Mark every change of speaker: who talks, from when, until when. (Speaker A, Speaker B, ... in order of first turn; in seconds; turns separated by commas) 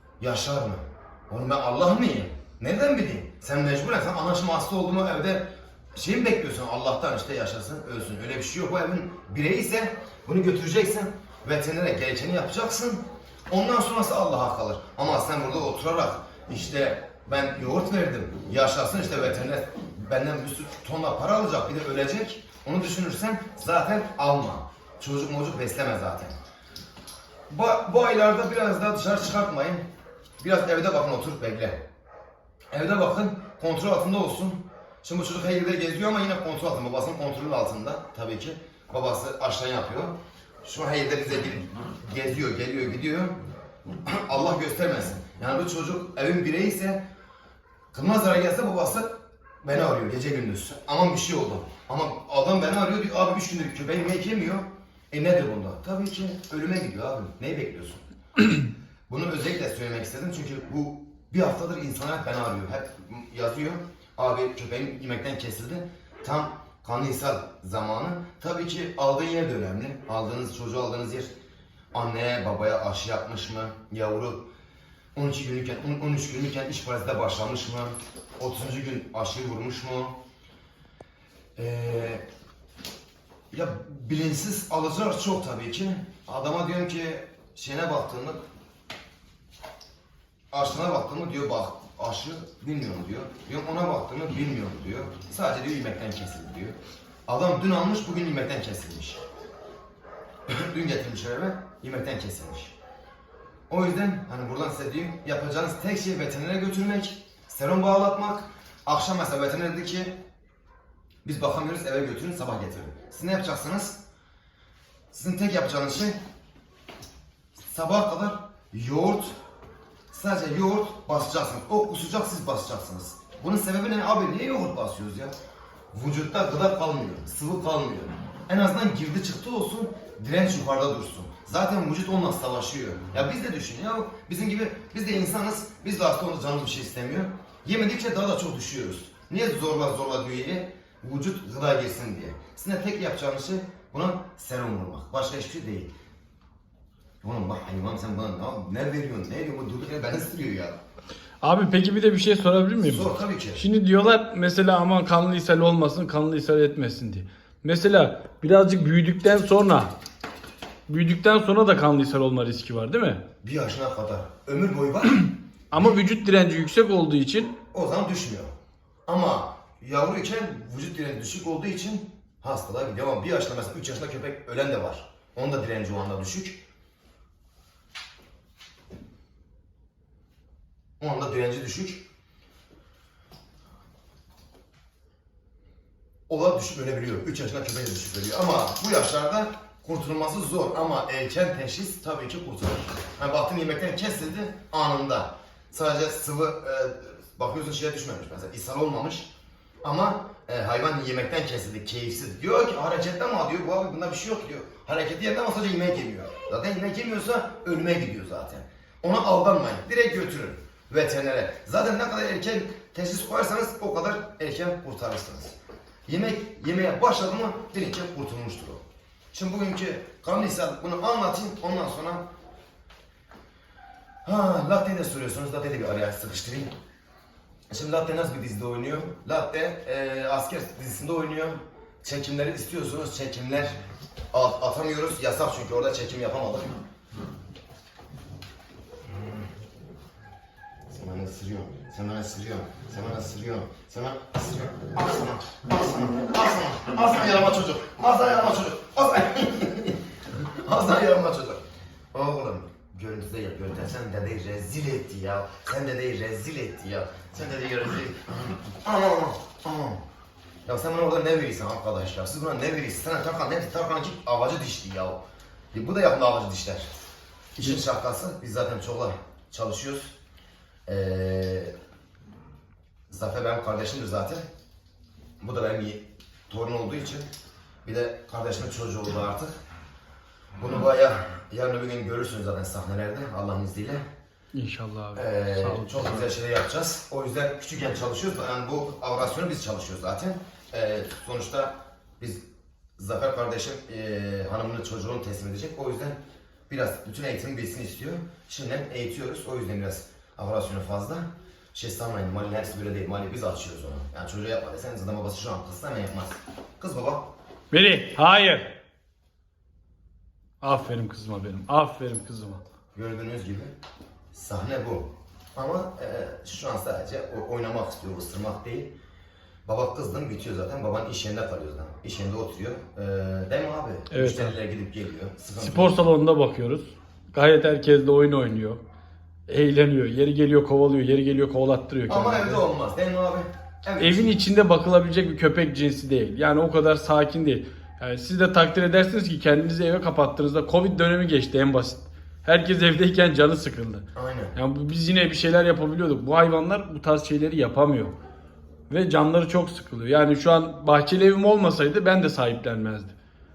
Speaker A: 0.2-26.4, Speaker A: 27.5-29.8, Speaker A: 30.4-31.8, Speaker A: 32.7-43.4, Speaker A: 44.1-47.0, Speaker A: 47.9-49.1, Speaker A: 49.6-58.0, Speaker A: 59.1-71.3, Speaker A: 71.9-74.5, Speaker A: 75.2-80.2, Speaker A: 81.6-82.2, Speaker A: 83.5-88.4, Speaker A: 90.5-96.8, Speaker A: 97.3-99.2, Speaker A: 100.5-102.8, Speaker A: 103.7-110.2, Speaker A: 111.2-114.0, Speaker A: 115.1-116.2, Speaker A: 117.6-119.3, Speaker A: 120.1-125.3, Speaker A: 125.9-145.9, Speaker A: 147.2-150.8, Speaker B: 151.4-159.9, Speaker A: 152.8-153.6, Speaker B: 160.9-163.2, Speaker A: 163.4-165.3, Speaker B: 165.7-167.6, Speaker A: 167.7-168.5, Speaker A: 169.1-176.6, Speaker A: 181.0-182.0, Speaker A: 186.3-199.3, Speaker A: 199.8-215.6, Speaker A: 216.1-218.8, Speaker A: 219.3-222.2, Speaker A: 224.2-226.7, Speaker A: 227.7-233.7, Speaker A: 234.3-236.8, Speaker A: 240.9-251.6, Speaker A: 252.1-260.0, Speaker A: 260.7-265.2, Speaker A: 265.7-267.0, Speaker A: 267.6-270.1, Speaker A: 270.9-271.7, Speaker A: 273.1-274.4, Speaker A: 275.4-277.3, Speaker A: 277.9-279.6, Speaker A: 280.6-284.0, Speaker B: 284.5-286.2, Speaker A: 285.1-292.4, Speaker A: 293.0-296.2, Speaker A: 296.7-307.3, Speaker B: 307.7-308.8, Speaker B: 310.6-312.6, Speaker A: 312.9-313.7, Speaker A: 314.3-318.9, Speaker A: 319.7-326.0, Speaker B: 324.1-324.6, Speaker B: 325.6-328.8, Speaker B: 329.5-332.6, Speaker A: 332.1-334.4, Speaker B: 334.0-348.1, Speaker A: 344.1-344.5, Speaker B: 348.9-353.1